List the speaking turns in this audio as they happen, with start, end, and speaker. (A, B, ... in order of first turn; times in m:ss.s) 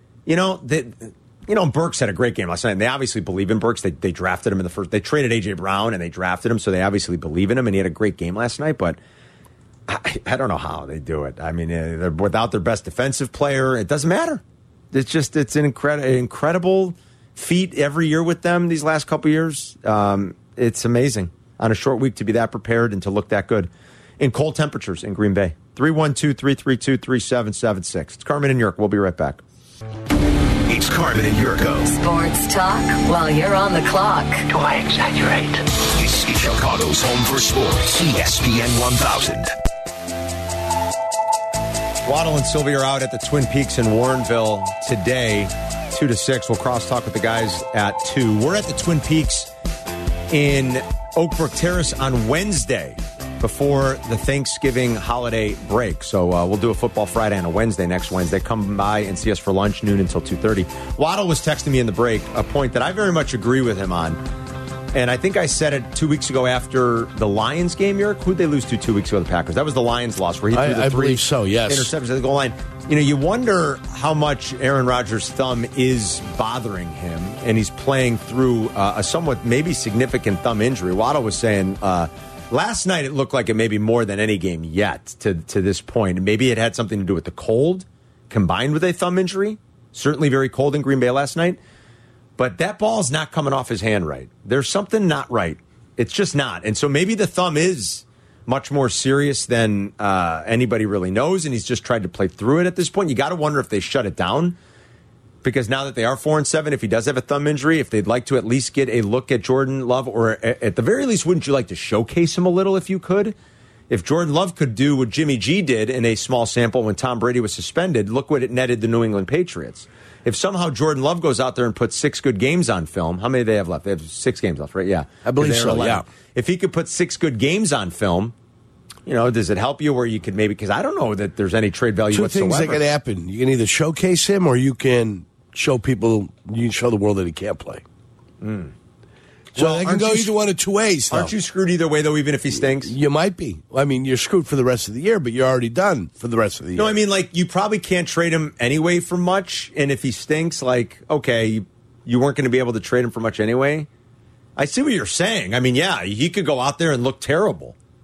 0:00.2-0:09.0 A
0:09.9-0:29.4 A
0:30.7-0:31.9 B
0:31.8-0:34.5 C
0:34.5-0:39.5 B
0:42.0-0:49.5 A
0:50.3-1:04.2 A
1:04.9-1:31.6 A
1:10.5-1:11.9 D
1:32.4-1:44.6 A
1:45.4-1:53.4 A
1:53.9-2:08.3 A
2:05.2-2:06.0 D
2:09.0-2:12.8 A
2:12.1-2:17.8 D
2:18.4-2:18.7 A
2:19.5-2:21.3 D
2:19.5-2:20.3 A
2:21.1-2:22.9 A
2:22.6-2:27.0 D
2:26.8-2:33.9 A
2:34.6-2:37.8 A